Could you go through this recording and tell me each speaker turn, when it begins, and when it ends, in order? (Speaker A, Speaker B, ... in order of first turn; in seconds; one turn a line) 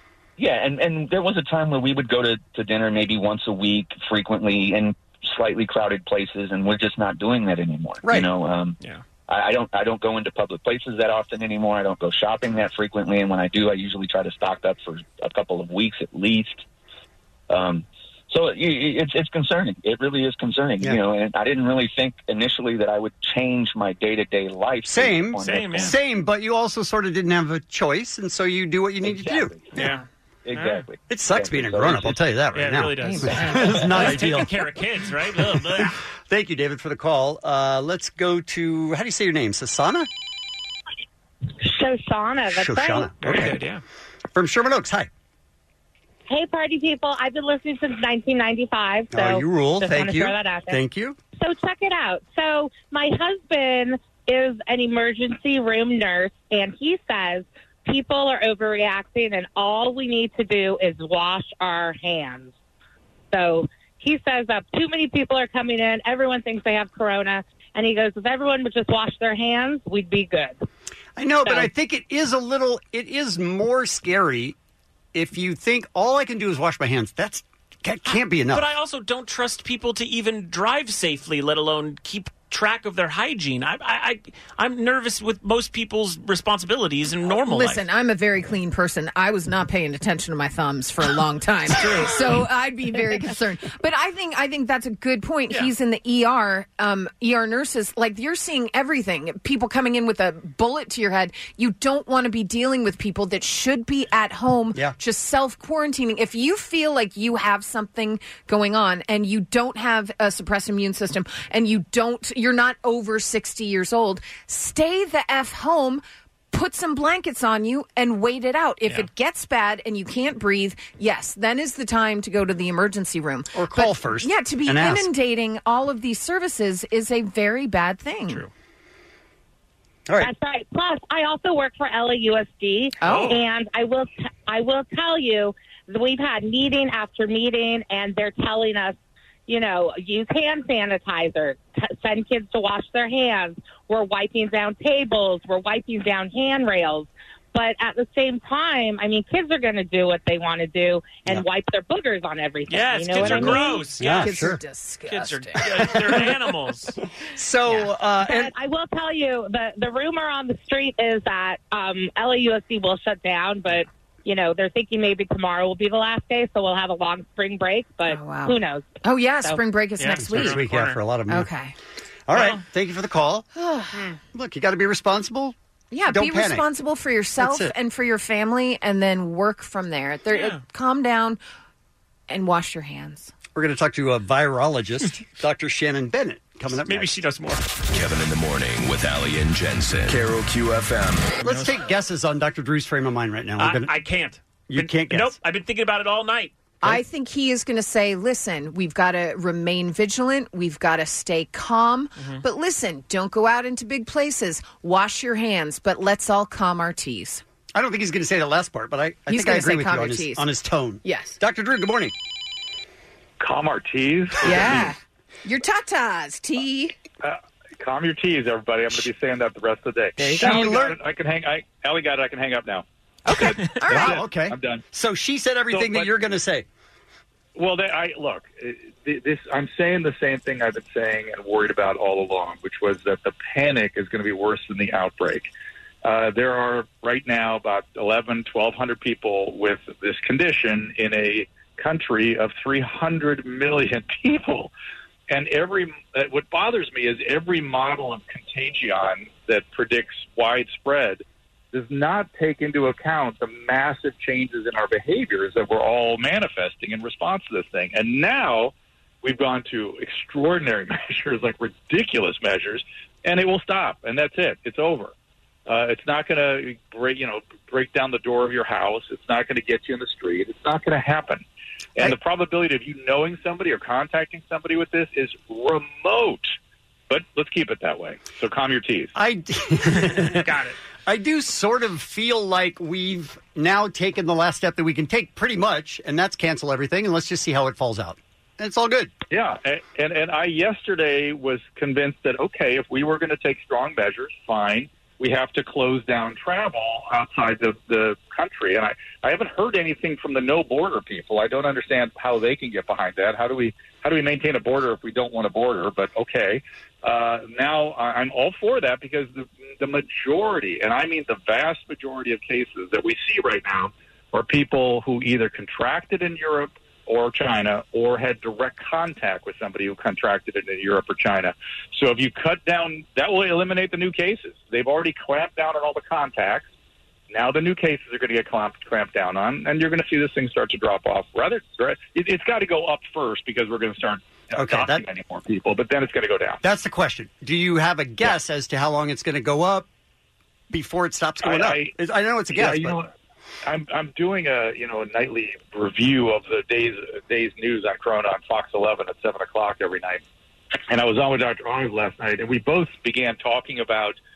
Speaker A: 0.4-16.6
Speaker B: 8.0-8.3
Speaker A: 17.5-25.9
Speaker B: 24.9-29.6
Speaker C: 25.4-25.9
Speaker A: 29.0-29.8
Speaker C: 29.8-30.9
Speaker A: 30.4-32.2
Speaker B: 31.1-34.5
Speaker C: 32.5-35.9
Speaker D: 33.0-33.8
Speaker B: 35.5-40.1
Speaker E: 41.6-43.1
Speaker B: 42.5-43.6
Speaker C: 43.2-43.8
Speaker B: 44.3-45.1
Speaker E: 46.3-50.8
Speaker B: 49.1-51.2
Speaker E: 51.4-62.5
Speaker E: 63.3-70.6
Speaker B: 71.2-74.5
Speaker B: 75.1-78.7
Speaker C: 78.5-87.8
Speaker D: 87.4-128.4
Speaker B: 123.5-125.1
Speaker E: 130.2-138.9
Speaker D: 133.0-133.4
Speaker C: 133.0-133.4
Speaker E: 139.5-153.8
Speaker C: 152.7-154.3
Speaker D: 153.2-156.0
Speaker B: 154.0-154.6
Speaker C: 155.1-157.0
Speaker B: 157.3-158.5
Speaker E: 158.2-168.9
Speaker D: 168.1-170.6
Speaker C: 170.0-171.0
Speaker B: 170.2-171.5
Speaker D: 171.3-171.7
Speaker B: 172.3-173.4
Speaker C: 172.3-172.6
Speaker D: 173.5-174.1
Speaker B: 174.3-175.5
Speaker D: 175.9-181.4
Speaker B: 176.1-176.7
Speaker B: 177.4-177.7
Speaker C: 180.3-180.6
Speaker D: 182.3-183.3
Speaker B: 183.5-187.1
Speaker C: 186.8-187.6
Speaker F: 187.9-191.3
Speaker C: 191.4-191.7
Speaker B: 191.4-193.9
Speaker C: 193.6-196.5
Speaker B: 194.7-195.3
Speaker D: 196.8-207.4
Speaker C: 202.2-202.4
Speaker B: 207.7-212.1
Speaker D: 209.3-210.5
Speaker D: 211.0-211.4
Speaker G: 213.4-214.7
Speaker D: 214.4-216.9
Speaker G: 217.2-224.8
Speaker B: 220.2-221.0
Speaker D: 220.2-220.6
Speaker D: 223.2-224.2
Speaker B: 223.9-226.6
Speaker G: 225.7-226.3
Speaker G: 227.6-235.5
Speaker G: 236.0-244.7
Speaker G: 245.3-265.1
Speaker G: 265.7-271.4
Speaker G: 271.9-276.5
Speaker G: 277.1-279.1
Speaker B: 279.1-280.5
Speaker C: 280.2-280.8
Speaker B: 281.1-289.1
Speaker G: 289.3-326.6
Speaker G: 327.3-336.6
Speaker B: 334.5-335.0
Speaker B: 336.6-339.9
Speaker B: 340.7-343.0
Speaker G: 341.4-341.9
Speaker G: 342.5-343.1
Speaker G: 343.7-350.2
Speaker G: 350.9-354.2